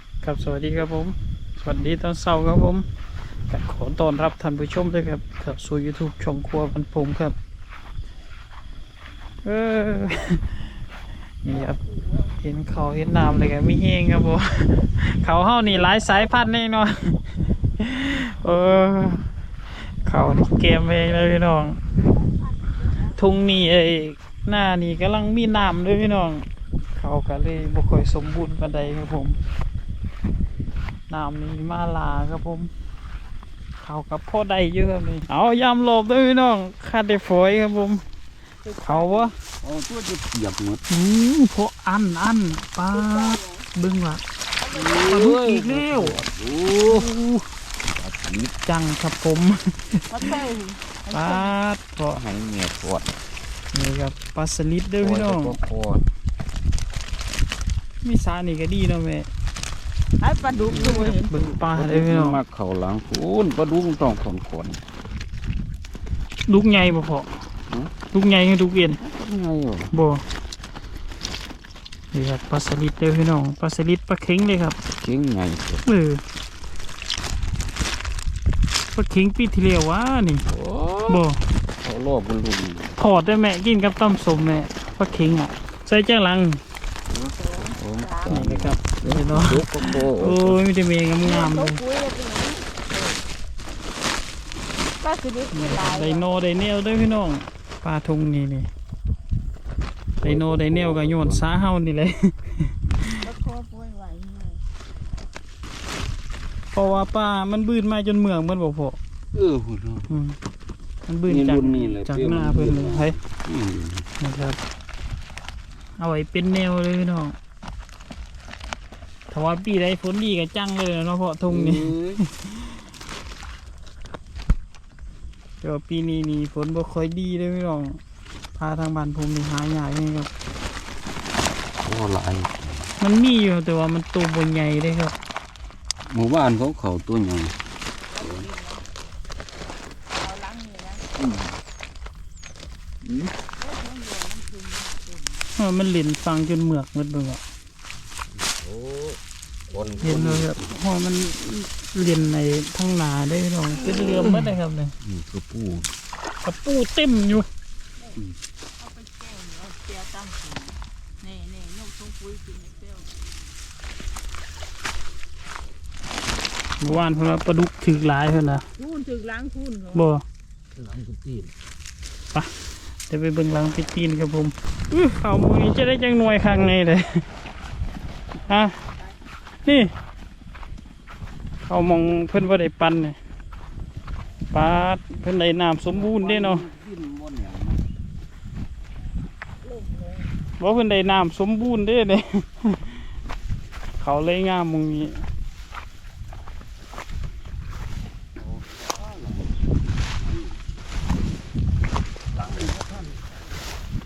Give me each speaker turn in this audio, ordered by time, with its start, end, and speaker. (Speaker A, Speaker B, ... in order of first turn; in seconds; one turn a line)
Speaker A: 0.2-2.8
Speaker A: 3.5-7.3
Speaker A: 9.4-10.6
Speaker A: 11.4-19.3
Speaker A: 19.8-21.8
Speaker A: 23.0-29.4
Speaker A: 31.1-32.7
Speaker A: 33.8-38.0
Speaker B: 38.6-39.3
Speaker A: 38.8-39.3
Speaker C: 39.6-40.8
Speaker A: 40.9-44.2
Speaker B: 42.9-43.7
Speaker B: 44.6-45.0
Speaker C: 44.7-47.1
Speaker A: 45.0-46.2
Speaker A: 46.8-47.5
Speaker C: 47.9-48.5
Speaker A: 48.6-50.3
Speaker B: 50.1-51.5
Speaker A: 51.1-52.2
Speaker C: 52.1-53.2
Speaker A: 53.7-55.6
Speaker C: 55.0-56.0
Speaker A: 58.0-59.3
Speaker B: 60.2-61.3
Speaker C: 60.7-64.8
Speaker A: 60.7-62.4
Speaker A: 66.5-67.3
Speaker A: 68.1-69.0
Speaker C: 69.0-69.9
Speaker A: 69.9-70.2
Speaker A: 72.1-74.8
Speaker C: 74.9-75.8
Speaker A: 75.8-76.2
Speaker A: 78.9-80.5
Speaker C: 80.5-81.2
Speaker A: 81.1-81.4
Speaker C: 81.8-83.0
Speaker A: 83.0-86.6
Speaker B: 87.1-88.4
Speaker C: 87.6-90.6
Speaker A: 88.3-91.8
Speaker B: 91.2-93.2
Speaker B: 95.0-96.3
Speaker A: 95.5-98.7
Speaker C: 100.2-101.4
Speaker A: 100.2-103.3
Speaker B: 103.2-104.6
Speaker A: 106.7-109.0
Speaker C: 109.3-110.1
Speaker A: 110.1-110.4
Speaker A: 111.1-113.2
Speaker C: 111.2-114.1
Speaker A: 114.2-114.6
Speaker A: 116.0-117.4
Speaker A: 119.3-122.8
Speaker C: 121.5-122.2
Speaker A: 125.6-128.0
Speaker A: 128.6-130.3
Speaker C: 131.8-132.9
Speaker A: 133.0-135.2
Speaker C: 136.1-137.6
Speaker B: 138.0-138.9
Speaker C: 138.2-138.5
Speaker B: 140.2-141.1
Speaker C: 141.2-141.6
Speaker C: 143.0-143.3
Speaker B: 143.6-145.5
Speaker A: 145.6-147.4
Speaker C: 148.3-149.2
Speaker C: 149.7-150.6
Speaker B: 149.7-150.1
Speaker A: 150.0-154.9
Speaker C: 155.0-155.9
Speaker A: 156.4-157.5
Speaker B: 158.8-163.1
Speaker A: 166.8-168.7
Speaker B: 168.8-170.1
Speaker A: 169.9-170.2
Speaker C: 170.8-171.5
Speaker A: 173.1-177.3
Speaker A: 178.5-178.8
Speaker A: 179.7-179.9
Speaker A: 181.6-183.2
Speaker A: 184.5-186.7
Speaker C: 185.9-187.8
Speaker B: 189.6-190.4
Speaker A: 190.6-193.0
Speaker A: 194.0-195.2
Speaker C: 198.4-199.5
Speaker C: 200.2-200.6
Speaker C: 202.3-203.2